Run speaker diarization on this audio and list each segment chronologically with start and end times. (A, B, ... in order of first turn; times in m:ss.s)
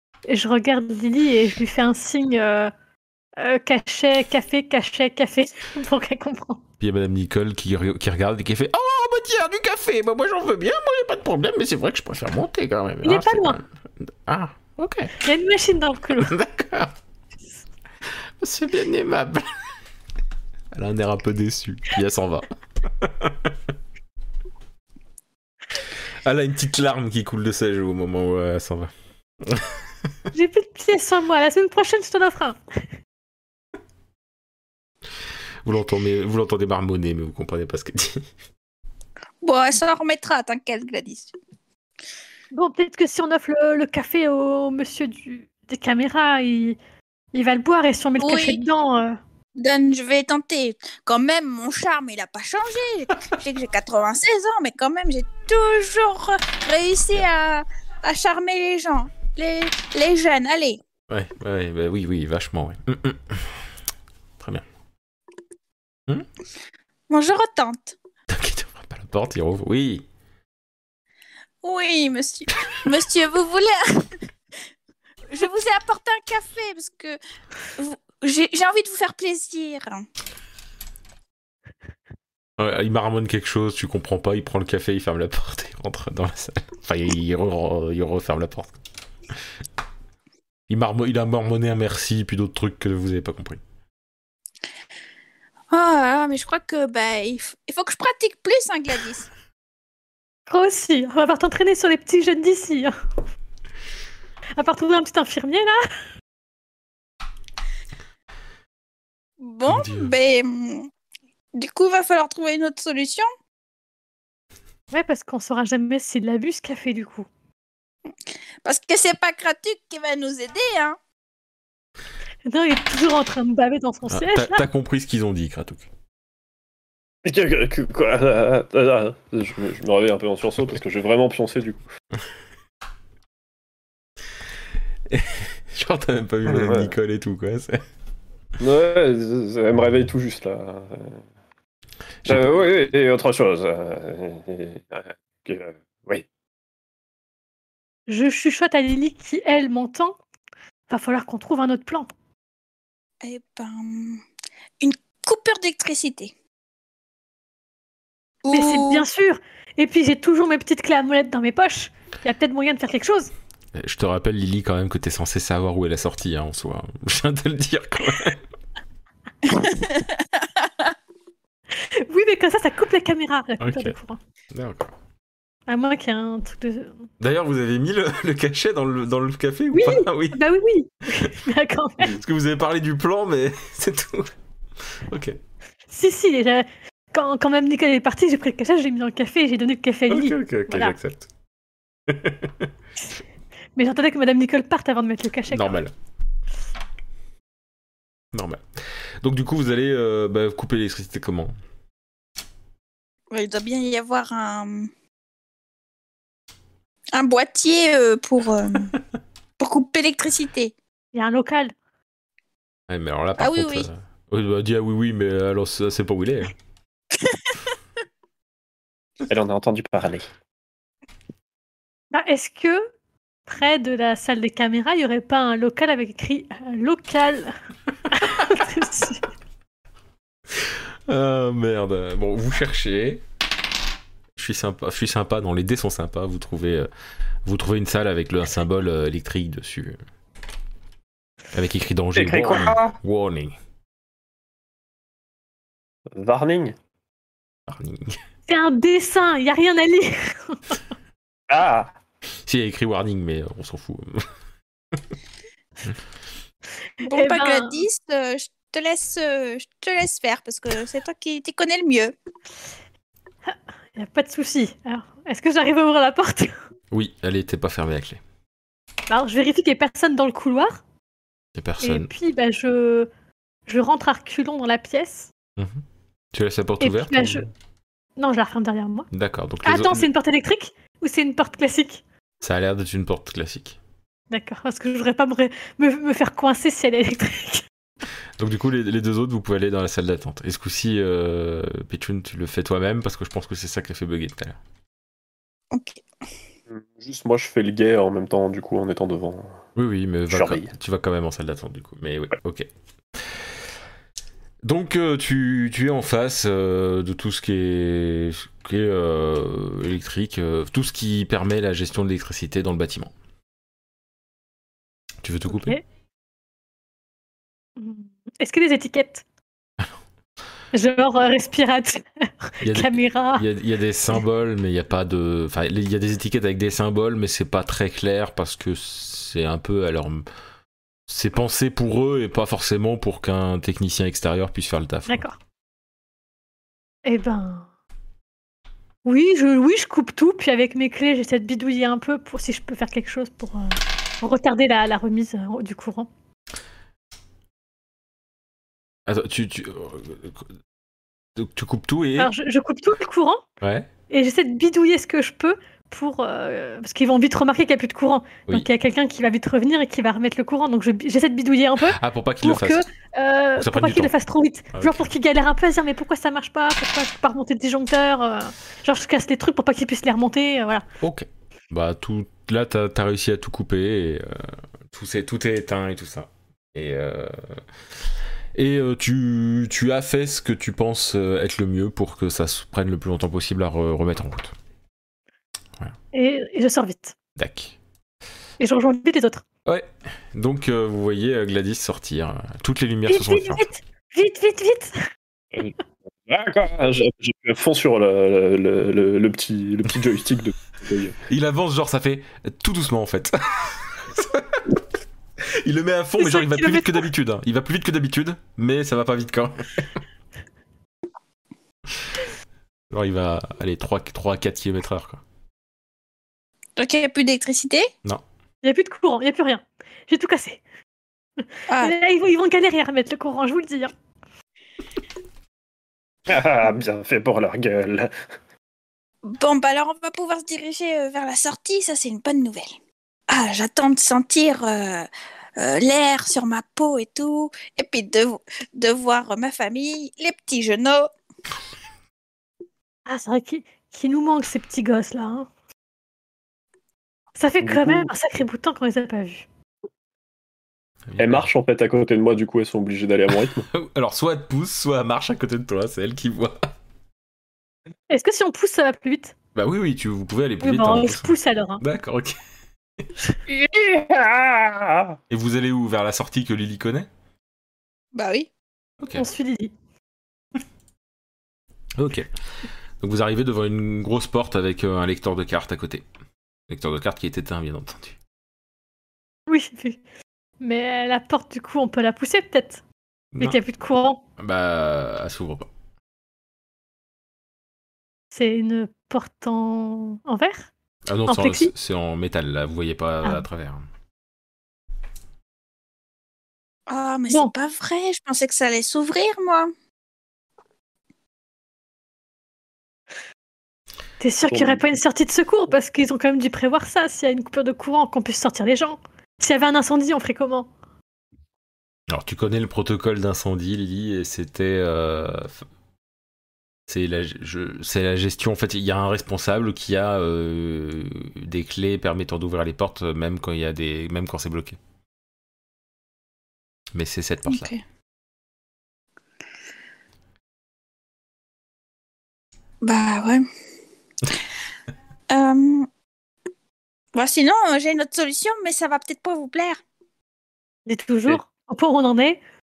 0:00.2-0:02.7 A
0:03.4-0:06.6 A
0:06.8-0:15.1 B
0:13.0-0:13.6 A
0:15.2-0:16.3 A
0:16.2-0:17.0 B
0:18.4-0:19.5 B
0:20.7-0:22.5 B
0:23.0-0:23.5 B
0:26.2-0:28.9 B
0:29.4-0:29.8 B
0:30.3-0:32.8 A
0:35.6-0:38.2 B
0:39.4-0:41.3 C
0:42.5-0:46.8 A
0:47.3-0:49.2 A
0:48.2-0:48.6 C
0:49.6-1:00.8 C
1:01.1-1:03.6 B
1:04.4-1:04.6 B
1:07.1-1:08.0 C
1:08.3-1:10.0 B
1:11.6-1:14.1 C
1:15.3-1:17.2 C
1:17.8-1:20.0 C
1:22.6-1:28.8 B
1:30.7-1:33.6 B
1:35.7-1:39.3 C
1:40.5-1:43.0 A
1:44.6-1:45.9 A
1:49.4-1:50.9 C
1:49.7-1:50.1 B
1:51.5-1:53.3 C
1:54.9-1:57.3 A
1:58.6-2:01.0 C
2:02.4-2:04.6 A
2:04.1-2:05.9 B
2:07.2-2:11.8 D
2:15.1-2:17.8 B
2:16.5-2:16.9 D
2:18.6-2:21.2 D
2:22.2-2:22.6 B
2:22.2-2:26.3 D
2:28.1-2:30.2 A
2:30.9-2:32.1 A
2:33.2-2:34.2 C
2:34.8-2:36.3 C
2:38.4-2:39.0 C
2:38.5-2:43.3 A
2:43.7-2:48.4 B
2:49.5-2:50.7 C
2:51.7-2:54.2 A
2:53.6-2:53.9 B
2:54.5-2:54.9 B
2:55.7-2:57.0 A
2:57.2-3:00.4 B
2:59.7-3:02.2 A
3:02.0-3:04.3 B
3:05.0-3:05.4 B
3:05.9-3:11.0 A
3:10.1-3:11.3 B
3:12.1-3:12.7 B
3:13.8-3:15.8 A
3:15.5-3:15.9 B
3:18.3-3:18.6 B
3:19.2-3:21.5 B
3:23.3-3:24.9 C
3:27.1-3:28.9 C
3:29.6-3:30.7 C
3:31.1-3:31.7 A
3:32.9-3:36.5 B
3:33.4-3:33.9 C
3:39.3-3:40.3 D
3:42.1-3:42.9 A
3:43.5-3:47.5 A
3:48.1-3:49.2 A
3:50.6-3:53.2 B
3:54.4-3:56.9 B
3:57.4-4:00.0 B
4:01.5-4:03.6 B
4:02.2-4:03.0 D
4:06.2-4:06.7 D
4:07.7-4:08.2 B
4:08.5-4:10.8 A
4:11.5-4:11.9 D
4:12.4-4:14.3 B
4:17.0-4:17.8 A
4:17.0-4:22.1 C
4:23.4-4:26.6 A
4:26.9-4:28.2 B
4:29.1-4:30.8 A
4:31.6-4:32.1 B
4:31.8-4:33.1 A
4:33.7-4:35.3 A
4:35.6-4:37.5 B
4:36.8-4:37.4 A
4:38.2-4:39.1 A
4:39.1-4:40.1 B
4:39.6-4:42.0 A
4:42.4-4:43.8 B
4:44.3-4:47.6 A
4:48.4-4:54.6 B
4:55.7-4:56.0 C
4:56.7-4:59.6 D
4:59.8-5:02.7 B
5:00.3-5:00.7 D
5:03.2-5:03.4 B
5:04.6-5:13.1 B
5:15.2-5:15.8 B
5:15.5-5:15.8 A
5:17.8-5:19.2 A
5:20.7-5:23.4 A
5:22.6-5:30.2 B
5:31.1-5:35.2 B
5:35.1-5:35.4 A
5:37.0-5:37.7 A
5:39.0-5:46.1 A
5:49.1-5:50.4 B
5:51.4-5:52.3 B
5:52.2-5:53.4 A
5:53.6-5:53.9 B
5:54.1-6:10.8 A
6:01.8-6:02.8 B
6:03.6-6:04.1 B
6:04.7-6:05.1 B
6:11.0-6:17.6 B
6:18.5-6:24.5 B
6:26.1-6:27.1 A
6:27.4-6:27.8 B
6:28.6-6:29.4 A
6:29.6-6:33.7 B
6:33.1-6:35.1 A
6:36.3-6:41.2 D
6:41.3-6:44.8 B
6:45.5-6:49.9 B
6:46.2-6:47.1 A
6:52.9-6:55.2 B
6:56.8-6:57.9 C
6:58.6-7:00.6 A
7:01.4-7:03.9 A
7:01.7-7:01.9 C
7:06.3-7:08.1 D
7:09.2-7:12.7 C
7:13.3-7:21.1 C
7:23.0-7:25.5 A
7:27.4-7:29.5 A
7:27.6-7:28.1 D
7:31.1-7:31.4 B
7:31.2-7:33.6 D
7:33.7-7:36.6 B
7:38.1-7:39.3 A
7:39.5-7:42.4 B
7:40.6-7:41.8 A
7:43.5-7:45.2 D
7:45.3-7:47.1 B
7:48.1-7:48.5 C
7:49.0-7:49.2 B
7:49.1-7:49.7 A
7:52.0-7:52.3 B
7:53.0-7:56.0 B
7:56.7-7:58.2 B
7:59.5-8:00.0 A
8:00.6-8:02.8 A
8:03.4-8:04.2 A
8:04.4-8:05.7 B
8:08.3-8:10.7 A
8:11.1-8:13.9 B
8:11.3-8:11.7 A
8:16.9-8:19.7 C
8:24.2-8:30.7 A
8:24.5-8:24.8 D
8:32.1-8:35.6 B
8:36.9-8:44.8 B
8:46.9-8:47.7 B
8:47.5-8:47.8 C
8:52.8-8:53.4 C
8:55.3-8:55.9 C
8:57.1-8:59.8 C
9:00.8-9:02.4 A